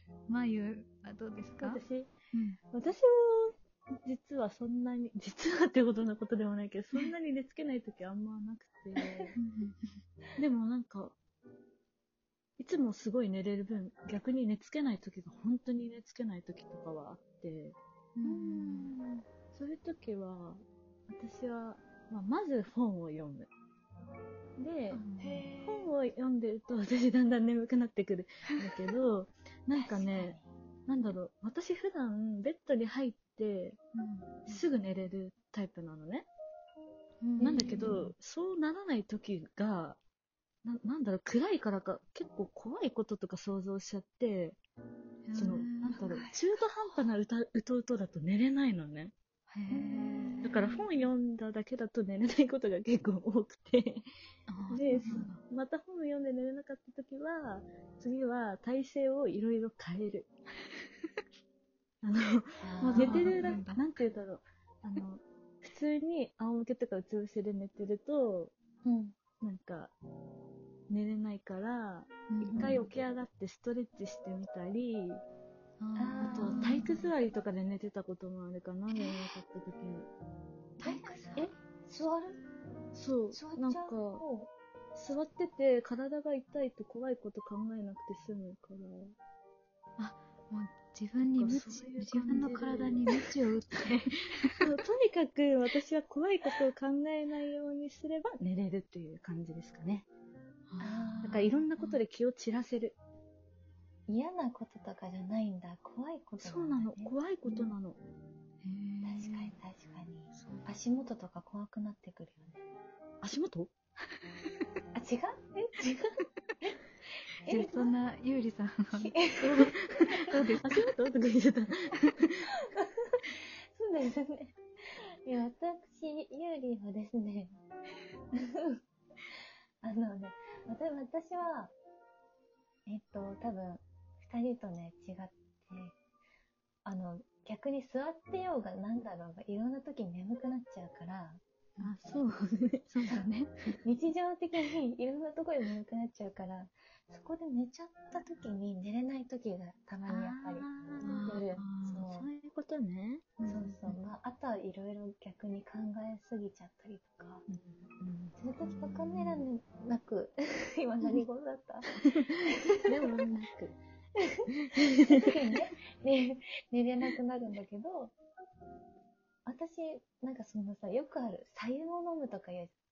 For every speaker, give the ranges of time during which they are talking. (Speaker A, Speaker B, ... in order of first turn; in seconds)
Speaker A: 0.3-2.6, 9.4-9.9, 18.2-18.9, 24.9-25.5, 33.9-34.6, 37.2-38.1, 45.2-46.0, 49.5-50.8, 54.5-55.4, 62.8-63.9, 72.3-72.8, 75.8-77.1, 78.9-79.4, 80.8-81.4, 90.0-94.7, 100.7-102.0, 108.6-109.5, 110.3-110.7, 117.5-119.1, 120.1-120.9, 142.9-143.8, 151.0-152.0, 153.4-153.9, 158.7-159.4
Speaker B: 1.6-2.1, 2.7-9.4, 10.4-11.2, 12.6-23.5, 24.6-25.0, 25.6-33.8, 34.4-36.3, 37.4-40.0, 40.6-44.6, 45.3-49.1, 50.4-54.1, 54.7-60.3, 62.0-68.5, 69.4-69.9, 70.9-75.2, 76.2-80.1, 82.9-84.2, 84.9-89.1, 91.2-93.3, 94.6-100.1, 101.2-103.0, 106.4-108.0, 113.2-113.7, 119.4-122.5, 141.8-142.9, 150.1-151.5, 152.1-153.3, 157.5-158.3, 162.0-163.8, 164.7-165.2
Speaker C: 25.2-25.9, 29.7-30.4, 45.9-46.4, 49.7-50.7, 54.7-55.3, 62.6-63.4, 68.8-69.1, 72.5-72.8, 76.0-76.9, 80.8-82.4, 83.3-84.5, 100.8-101.6, 104.1-107.2, 109.0-112.6, 114.9-116.0, 117.4-117.9, 118.9-119.8, 123.7-124.6, 125.2-127.6, 128.3-128.8, 129.8-131.7, 132.8-135.9, 136.8-141.4, 143.8-150.7, 151.2-152.3, 153.4-157.4, 158.4-163.2, 164.2-168.1, 169.4-172.7